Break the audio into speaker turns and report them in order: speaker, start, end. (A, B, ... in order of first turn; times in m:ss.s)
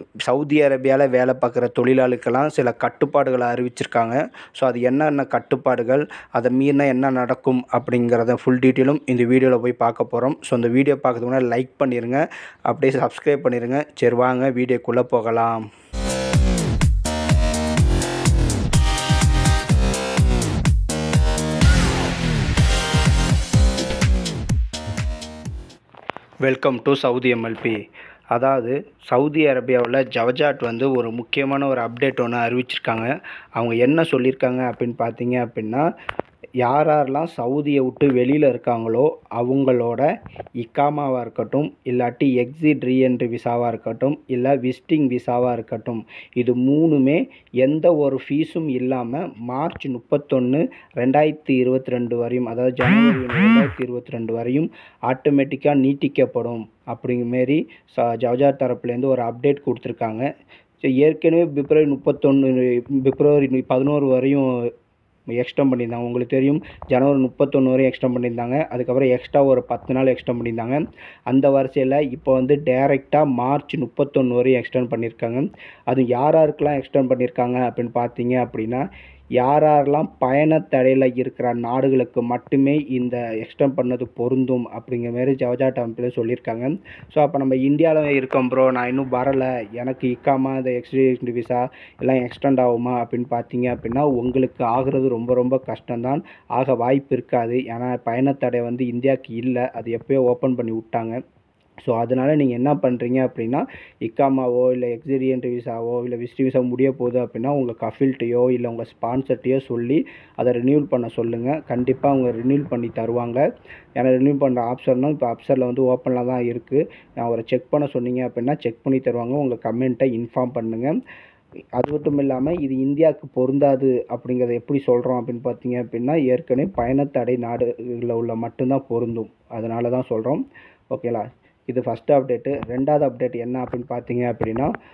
0:00.2-0:15.7 A
0:26.4-0:27.8 A
0:28.3-0:35.9 A
0:36.6-0:40.1 A
0:40.6-1:00.3 A
1:01.0-1:04.5 A
1:05.3-1:18.8 A
1:19.4-1:41.2 A
1:41.8-1:53.4 A
1:54.0-2:01.0 A
2:01.8-2:10.4 A
2:10.9-2:14.7 A